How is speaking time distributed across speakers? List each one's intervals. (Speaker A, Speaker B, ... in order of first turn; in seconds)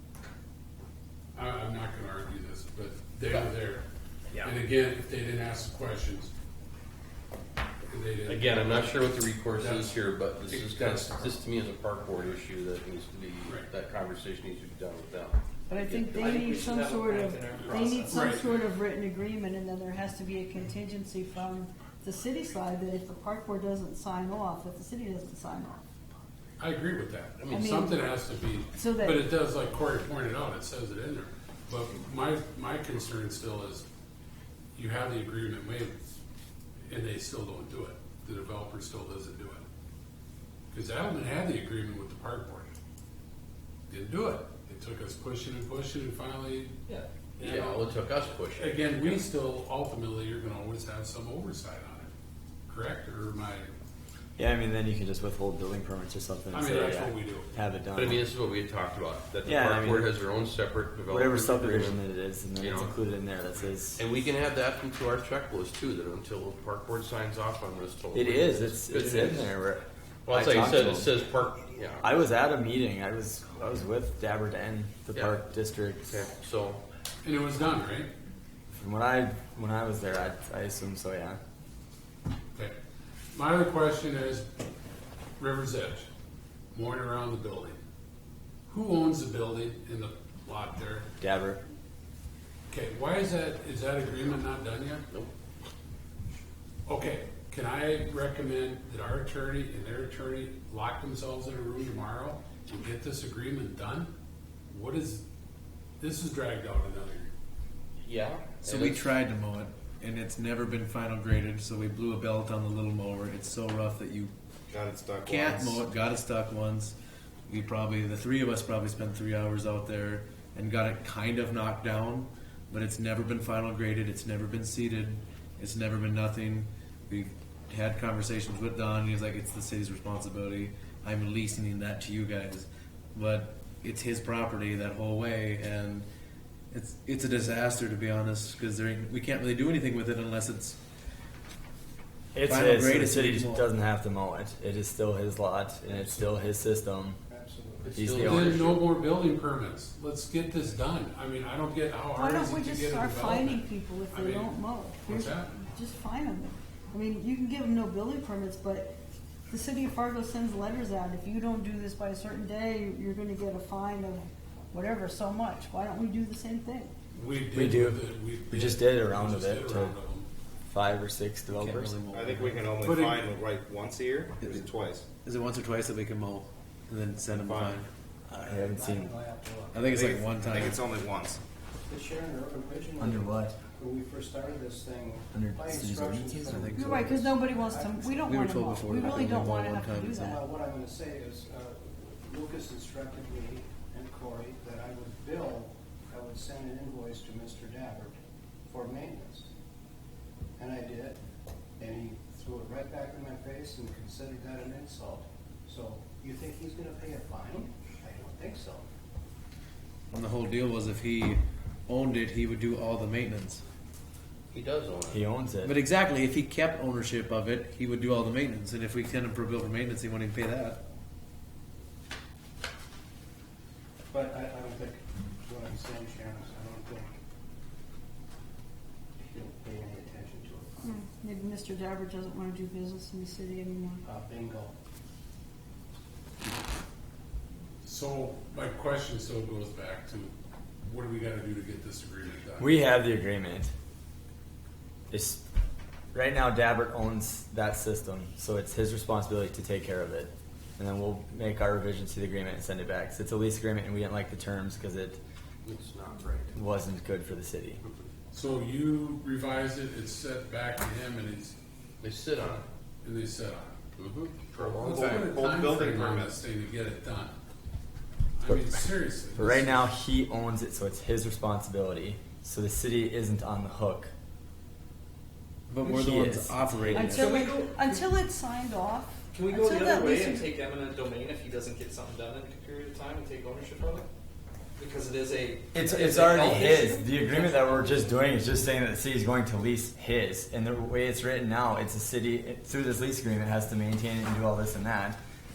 Speaker A: 1.3-3.9, 4.4-6.3, 7.9-8.9, 9.6-9.9, 10.4-11.4, 17.6-18.6, 26.6-33.9, 34.8-36.1, 36.9-39.6, 40.7-42.7, 43.9-46.8, 47.4-48.0, 48.5-52.1, 52.7-53.7, 56.5-57.5, 77.2-78.1, 83.3-84.5, 85.4-86.1, 86.7-87.8, 88.7-91.1, 92.7-95.0, 96.9-104.1, 104.7-105.2, 106.0-107.3, 148.2-155.5, 167.1-170.3, 172.8-173.3, 237.8-242.8, 258.3-261.6, 263.0-263.8, 264.6-267.4, 268.4-269.9
Speaker B: 8.2-16.4, 27.4-27.7, 47.4-49.3, 57.9-62.0, 62.6-63.0, 63.9-69.5, 70.3-72.1, 75.1-75.4, 76.1-76.8, 108.0-109.1, 147.8-148.8, 214.5-215.2, 255.7-256.5, 262.0-262.6, 264.0-265.4
Speaker C: 15.7-25.8, 27.5-28.0, 28.7-29.2, 152.1-158.9, 159.5-166.9, 186.7-190.4, 230.8-234.0, 276.9-280.5
Speaker D: 16.1-18.3, 277.2-278.0, 279.3-284.1, 284.8-288.4
Speaker E: 54.4-58.2, 59.5-60.1, 61.1-64.0, 68.1-71.1, 72.0-76.2, 78.7-81.4, 91.2-91.6, 142.3-147.2, 147.9-148.7, 167.5-169.9, 170.7-172.0, 178.3-179.1, 183.0-183.6, 185.3-186.6, 215.1-215.8, 242.6-243.7, 245.1-245.4, 246.1-255.2, 256.5-257.8, 268.4-274.1, 275.8-277.1, 285.7-295.2
Speaker F: 108.6-114.3, 115.2-117.0, 117.5-136.1, 136.7-140.8, 142.5-143.7, 171.5-172.7, 174.4-174.7, 175.2-177.9, 179.7-180.8, 186.3-187.2, 188.2-190.4, 210.1-213.6, 215.7-220.8, 275.7-277.3
Speaker G: 114.7-115.8, 172.1-175.1, 177.4-177.7, 180.0-181.4, 265.0-266.4
Speaker H: 147.3-148.0, 178.4-180.6, 181.9-188.4, 190.2-198.2, 198.7-199.5, 200.6-201.2, 201.8-208.9, 224.1-227.1, 229.2-230.9, 234.0-234.7